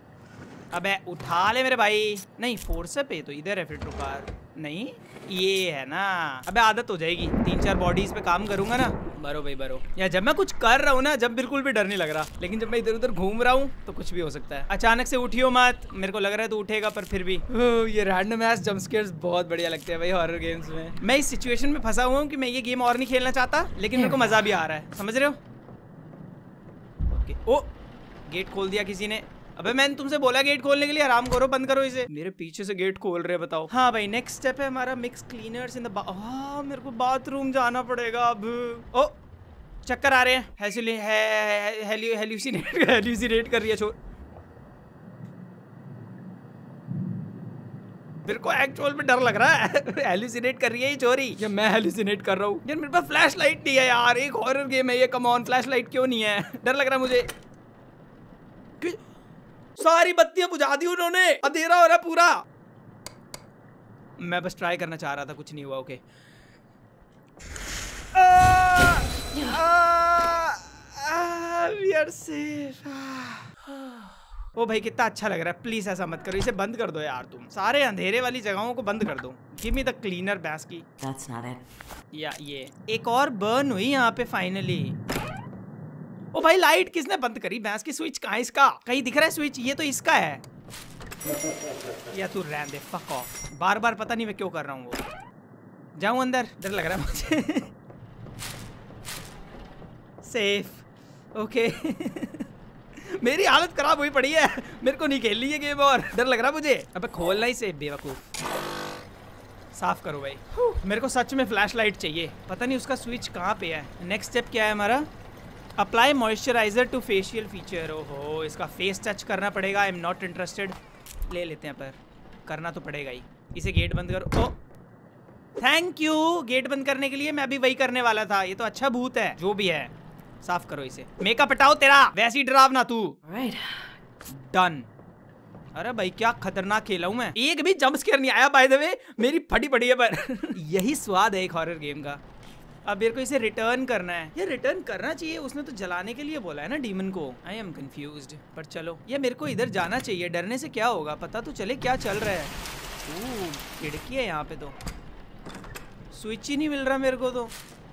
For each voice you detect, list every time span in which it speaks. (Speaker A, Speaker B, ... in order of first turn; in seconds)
Speaker A: 0.7-25.4, 27.1-27.7, 28.3-39.1, 39.9-44.0, 48.2-57.3, 59.8-62.4, 64.2-66.0, 68.1-74.0, 74.5-80.9, 82.1-85.0, 86.3-90.4, 92.1-95.0, 96.0-97.7, 100.2-100.8, 101.3-108.3, 109.7-115.1, 115.8-120.8, 121.3-124.5, 125.6-133.2, 134.3-134.9, 135.7-142.2, 142.8-152.5, 153.0-154.7, 156.1-157.5
Speaker B: 23.9-24.6, 81.0-81.6, 133.2-134.0